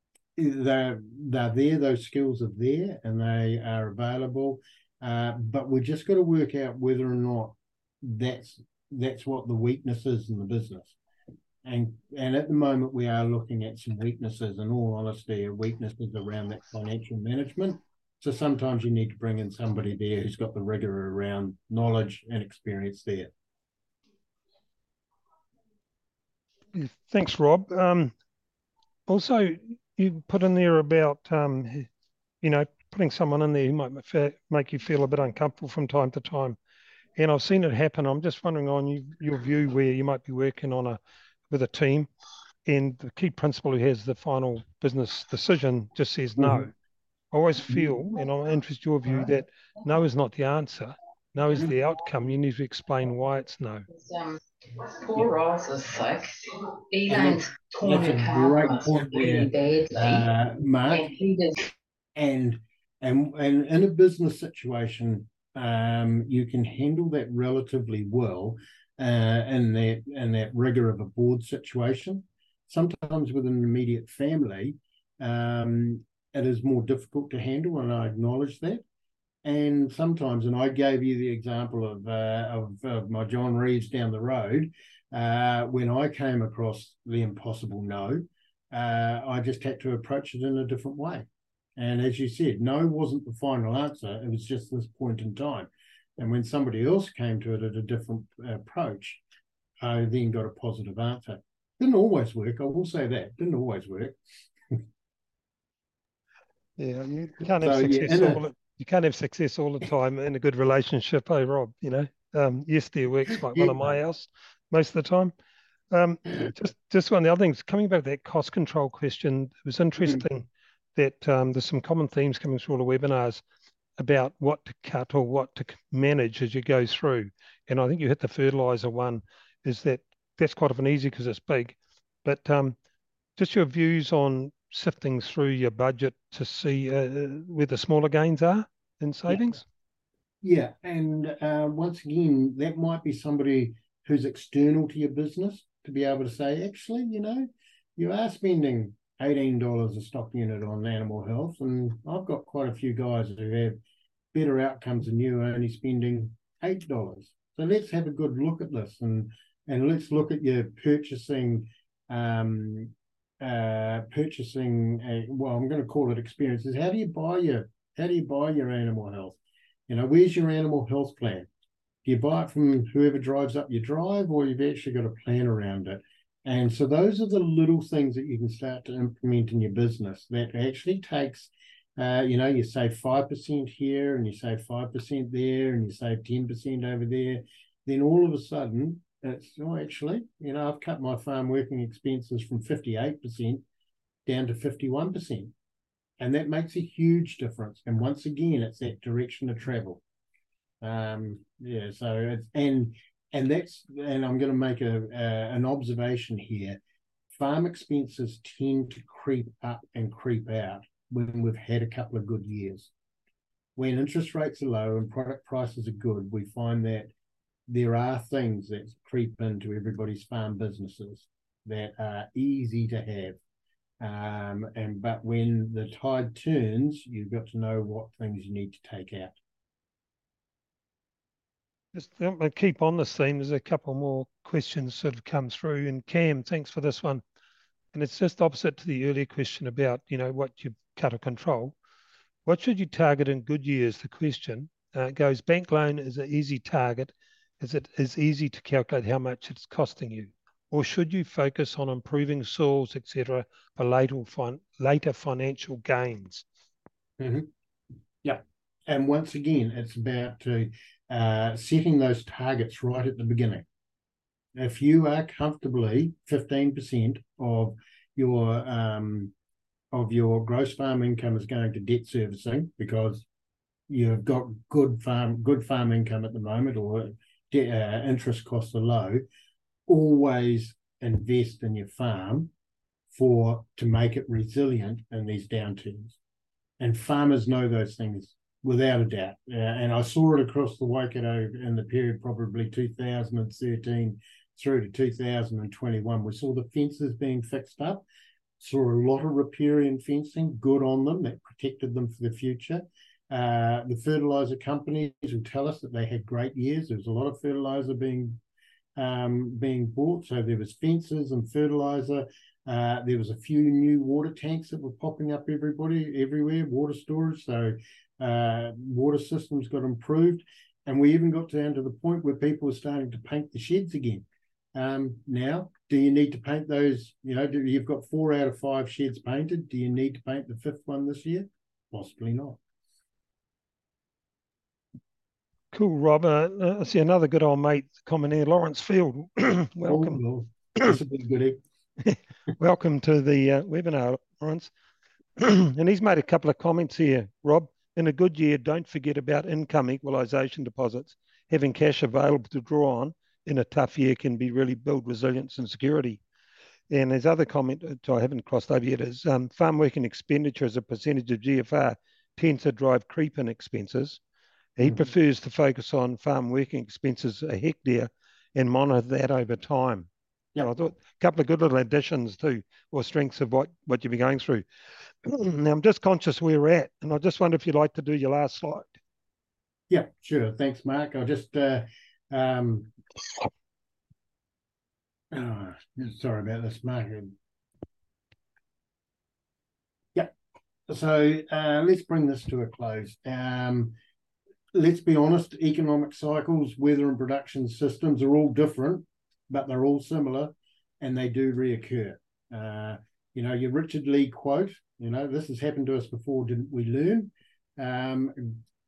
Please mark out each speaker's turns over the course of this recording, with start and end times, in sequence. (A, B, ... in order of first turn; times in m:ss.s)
0:00.4-0:11.0 A
0:11.6-0:23.3 A
0:26.7-0:28.1 B
0:29.1-0:31.9 B
0:32.4-0:36.6 B
0:37.2-0:41.0 B
0:41.5-0:42.1 B
0:42.7-0:46.7 B
0:46.4-0:46.6 A
0:47.3-0:53.9 B
0:53.9-1:00.3 C
0:57.1-1:01.1 A
1:00.9-1:01.7 C
1:02.2-1:18.8 A
1:19.4-1:39.2 A
1:39.8-1:44.2 A
1:46.8-1:55.3 B
1:47.6-1:48.4 A
1:55.9-2:03.4 B
2:04.0-2:12.8 B
2:13.4-2:19.6 B
2:19.3-2:19.6 A
2:20.4-2:33.8 A
2:34.3-2:51.5 A
2:52.0-3:13.6 A
3:14.3-3:15.5 A
3:16.2-3:20.0 A
3:20.8-3:26.8 A
3:27.3-3:32.9 A
3:33.8-3:37.1 A
3:37.7-3:43.4 A
3:44.0-3:49.4 A
3:51.9-3:57.2 B
3:57.9-4:01.8 B
4:02.5-4:16.4 B
4:17.2-4:17.5 A
4:18.2-4:23.6 A
4:24.6-4:29.3 A
4:29.9-4:33.3 A
4:33.9-4:39.2 A
4:39.9-4:42.5 A
4:43.1-4:46.2 A
4:46.8-4:58.0 A
4:58.6-5:08.4 A
5:09.0-5:32.6 A
5:35.7-5:40.2 B
5:39.9-5:41.6 A
5:42.0-5:44.7 B
5:45.4-5:56.2 B
5:56.9-6:04.2 B
6:04.8-6:14.6 B
6:15.2-6:19.0 B
6:19.9-6:22.9 A
6:25.3-6:27.3 A
6:30.9-6:33.9 A
6:34.7-6:48.6 A